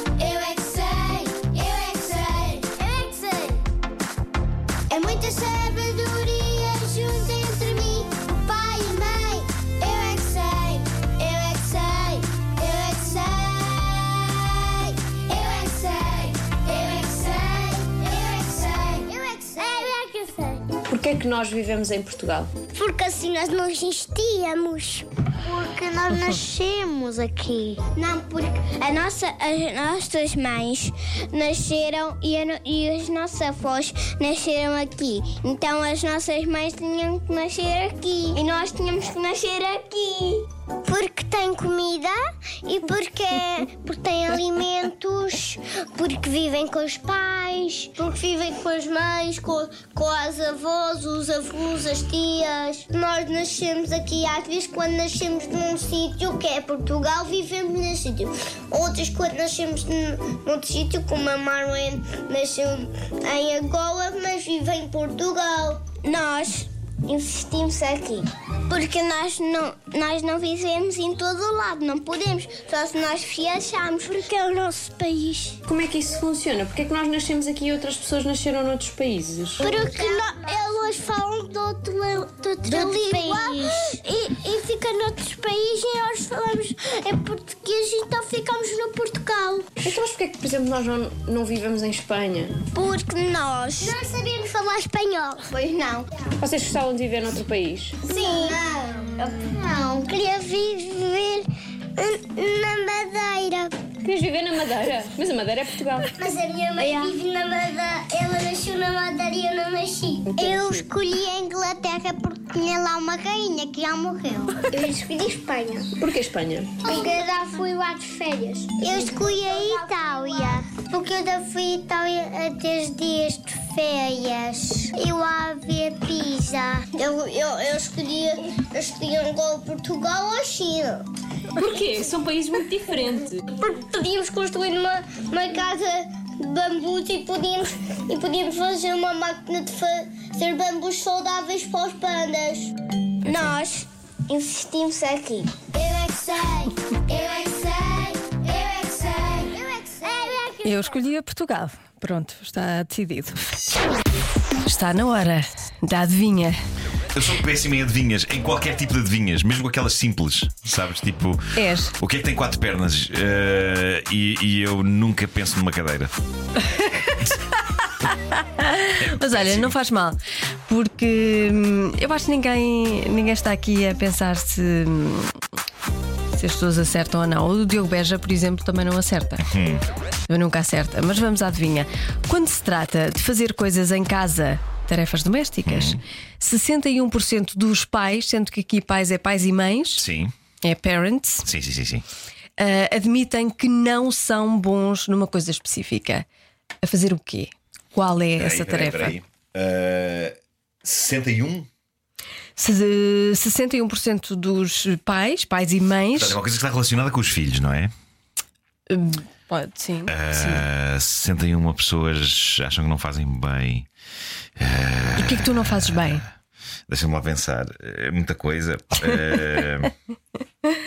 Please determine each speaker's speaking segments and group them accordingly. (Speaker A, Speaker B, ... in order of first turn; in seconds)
Speaker A: 0.1-3.6, 4.9-20.7, 22.7-75.6, 79.6-89.7, 92.7-96.1, 98.0-103.8, 106.1-115.9, 116.8-131.1, 133.5-150.8
Speaker B: 20.9-22.5, 75.7-79.9, 82.6-83.8, 89.8-92.6, 96.4-98.5, 104.0-106.1, 106.8-107.1, 110.3-110.8, 116.0-116.9, 118.9-119.2, 131.5-133.4
Speaker C: 150.6-153.6, 154.6-156.6, 161.5-161.9, 166.6-167.2, 168.3-175.4, 176.3-179.5, 180.3-190.0, 190.6-191.5, 192.6-196.2, 196.8-199.2, 202.6-206.4, 208.9-210.6, 215.2-216.2
Speaker D: 157.1-166.2, 169.0-169.8, 179.4-179.8, 185.6-186.0, 189.9-190.3, 191.4-192.0, 198.4-201.7, 206.1-207.9, 210.1-213.9, 214.6-216.3, 216.9-219.9